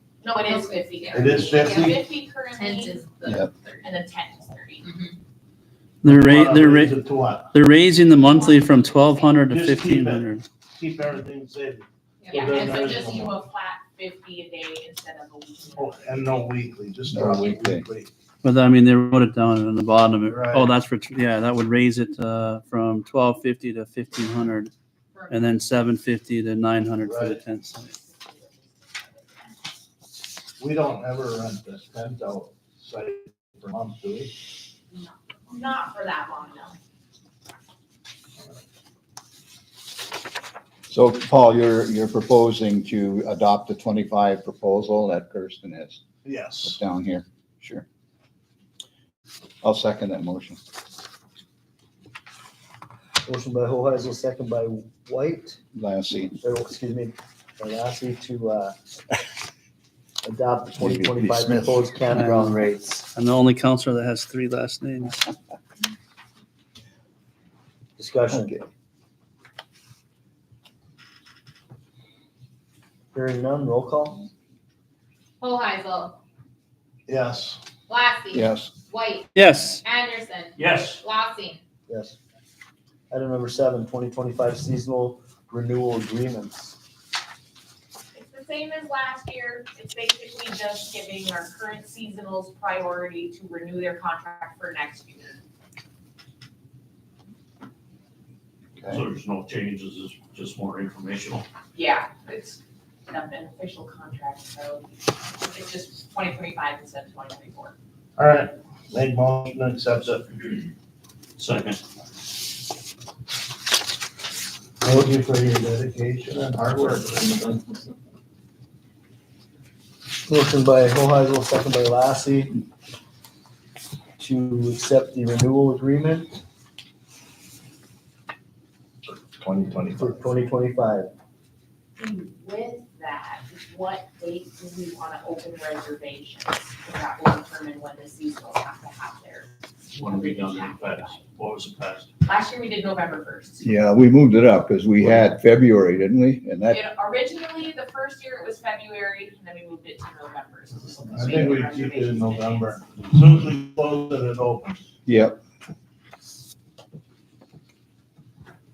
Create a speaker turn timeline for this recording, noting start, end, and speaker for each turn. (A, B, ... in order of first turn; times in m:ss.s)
0:00.2-0:03.1 A
0:00.5-0:02.0 B
0:01.1-0:02.0 C
0:02.6-0:03.8 B
0:03.2-0:03.5 D
0:03.8-0:04.9 A
0:04.8-0:05.1 B
0:06.0-0:07.0 E
0:06.0-0:07.5 C
0:07.5-0:10.4 E
0:08.1-0:09.4 A
0:09.5-0:13.4 C
0:12.2-0:12.8 B
0:12.3-0:16.4 A
0:15.8-0:18.1 C
0:17.1-0:17.8 D
0:18.4-0:24.7 E
0:20.2-0:20.7 C
0:25.1-0:25.5 B
0:25.3-0:27.9 E
0:27.0-0:27.4 C
0:27.8-0:29.5 A
0:30.6-0:34.3 C
0:35.5-0:36.8 A
0:40.9-0:46.0 D
0:46.2-0:46.8 C
0:46.6-0:47.8 D
0:49.6-0:50.6 D
0:53.2-0:55.6 F
0:55.8-0:56.4 D
0:56.4-0:58.7 F
1:00.2-1:03.0 F
1:00.8-1:01.9 D
1:02.1-1:05.3 E
1:08.0-1:08.6 F
1:08.3-1:08.6 D
1:13.1-1:14.2 F
1:15.4-1:16.2 B
1:17.1-1:17.6 C
1:17.9-1:19.3 B
1:18.3-1:18.7 D
1:19.3-1:19.8 E
1:19.8-1:21.6 B
1:20.6-1:21.0 G
1:21.9-1:22.2 F
1:23.1-1:26.8 F
1:28.1-1:35.4 A
1:38.8-1:41.4 G
1:41.8-1:47.8 A
1:48.2-1:50.3 C
1:51.4-1:51.8 G
1:54.8-1:57.8 C
2:00.3-2:02.6 F
2:04.2-2:06.4 F
2:09.1-2:10.3 C
2:10.0-2:11.1 F
2:12.0-2:21.3 A
2:19.9-2:22.1 G
2:22.2-2:23.6 A
2:23.6-2:26.8 D
2:26.6-2:32.8 A
2:31.1-2:34.8 C
2:35.1-2:35.4 D